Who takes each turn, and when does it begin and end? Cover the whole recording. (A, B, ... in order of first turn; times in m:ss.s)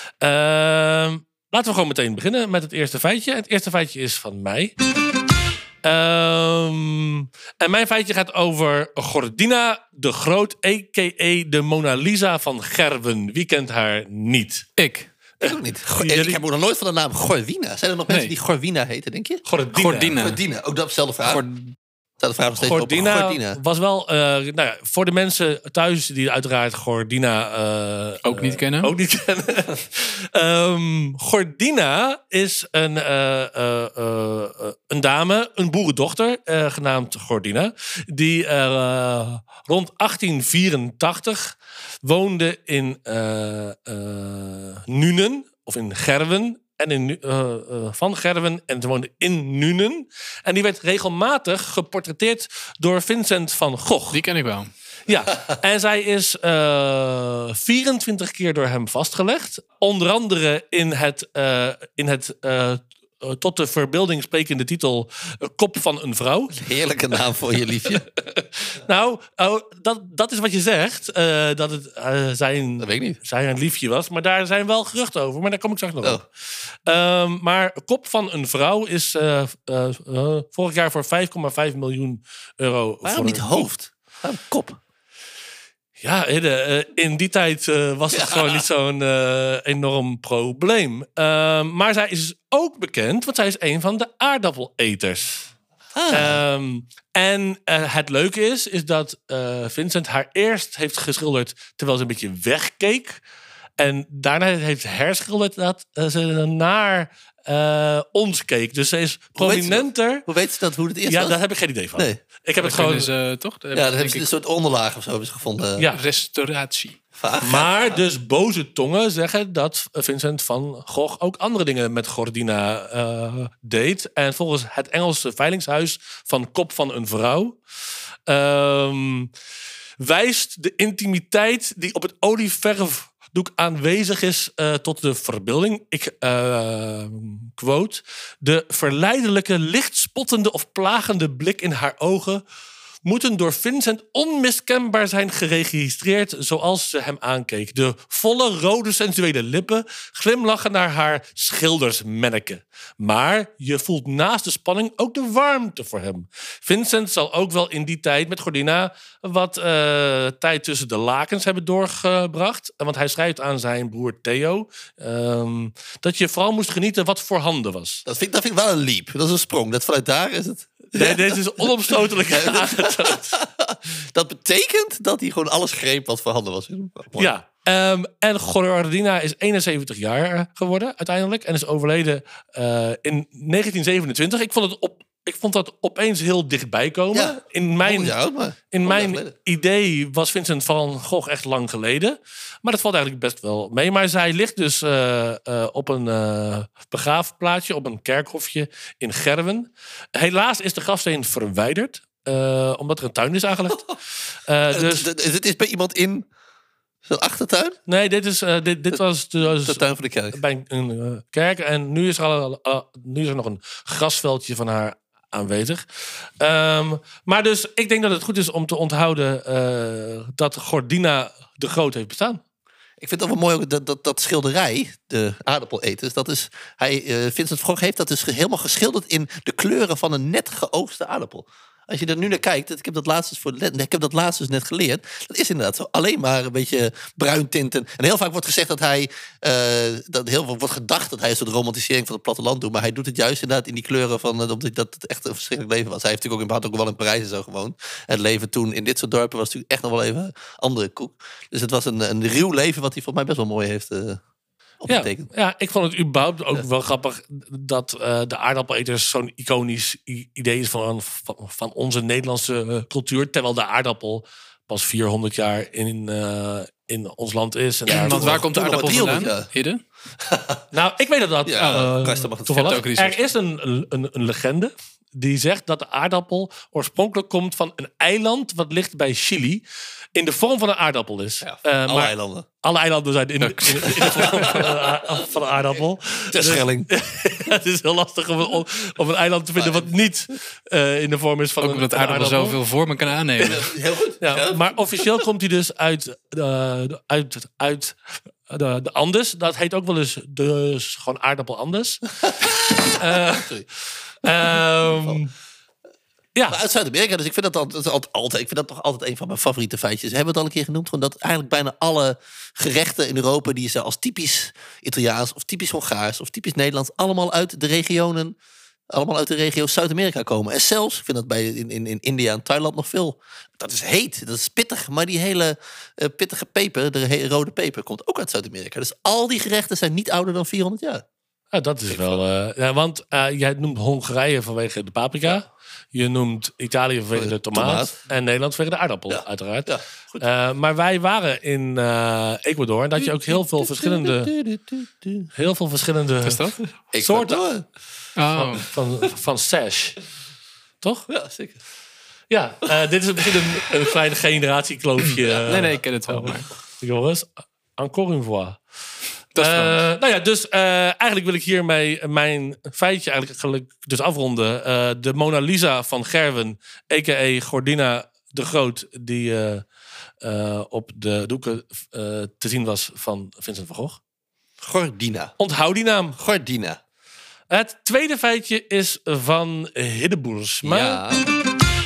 0:00.2-0:04.7 A
0:05.8-0:14.7 A
0:14.8-0:15.1 B
0:15.4-0:19.4 C
0:15.4-0:16.4 A
0:18.1-0:18.3 B
0:19.4-0:20.2 A
0:19.7-0:20.4 B
0:20.2-0:21.4 C
0:21.2-0:21.7 B
0:22.2-0:23.6 C
0:22.6-0:54.2 A
0:28.2-0:28.9 B
0:54.1-0:54.7 B
0:55.1-1:06.6 A
1:06.5-1:08.1 C
1:08.8-1:16.2 A
1:12.8-1:13.2 C
1:16.8-1:23.7 A
1:23.0-1:24.8 C
1:26.0-1:35.5 A
1:28.1-1:28.6 C
1:35.9-1:36.4 C
1:36.1-1:43.2 A
1:43.8-1:50.2 A
1:49.4-1:51.4 C
1:51.1-1:53.1 A
1:52.6-1:54.3 B
1:53.7-1:55.9 C
1:55.8-1:56.0 A
1:55.9-1:57.0 B
1:57.2-1:57.7 C
1:57.4-2:07.6 A
2:08.3-2:09.3 A
2:10.0-2:22.4 A
2:23.0-2:48.0 A
2:48.0-2:57.3 C
2:50.9-2:53.3 A
2:57.2-3:08.2 A
3:07.1-3:09.3 C
3:08.7-3:23.9 A
3:24.5-3:25.1 A
3:24.7-3:26.3 C
3:27.0-3:27.8 C
3:27.9-3:42.4 A
3:29.6-3:30.4 C
3:43.0-4:14.2 C
4:14.8-4:15.3 C
4:14.9-4:28.4 A
4:27.9-4:29.5 C
4:27.9-4:29.8 B
4:30.2-4:30.6 C
4:30.7-4:39.6 A
4:31.4-4:32.9 C
4:31.6-4:31.9 B
4:32.5-4:33.2 B
4:40.1-4:52.6 A
4:41.4-4:42.4 C
4:43.4-4:44.6 B
4:44.0-4:44.7 C
4:46.3-4:46.9 C
4:49.6-4:49.9 C
4:51.6-4:53.7 B
4:53.4-4:54.7 C
4:54.2-5:02.0 A
5:02.2-5:03.6 C
5:03.0-5:03.5 A
5:04.2-5:05.3 A
5:06.5-5:18.4 C
5:18.9-5:31.0 C
5:31.5-5:44.3 A
5:31.9-5:32.2 C
5:37.1-5:37.9 C
5:39.1-5:40.2 C
5:43.0-5:45.2 C
5:45.3-5:47.4 A
5:46.2-5:46.6 B
5:46.9-5:47.6 C
5:48.2-5:48.6 B
5:48.3-5:50.0 A
5:50.8-5:51.1 A
5:51.1-5:51.6 C
5:52.3-5:58.6 A
5:53.2-5:53.6 C
5:55.0-5:56.5 B
5:59.3-5:59.8 B
5:59.4-6:09.6 A
6:10.2-6:14.0 A
6:14.6-6:15.3 C
6:15.4-6:16.2 A
6:16.2-6:16.8 C
6:17.5-6:21.0 A
6:20.6-6:21.2 C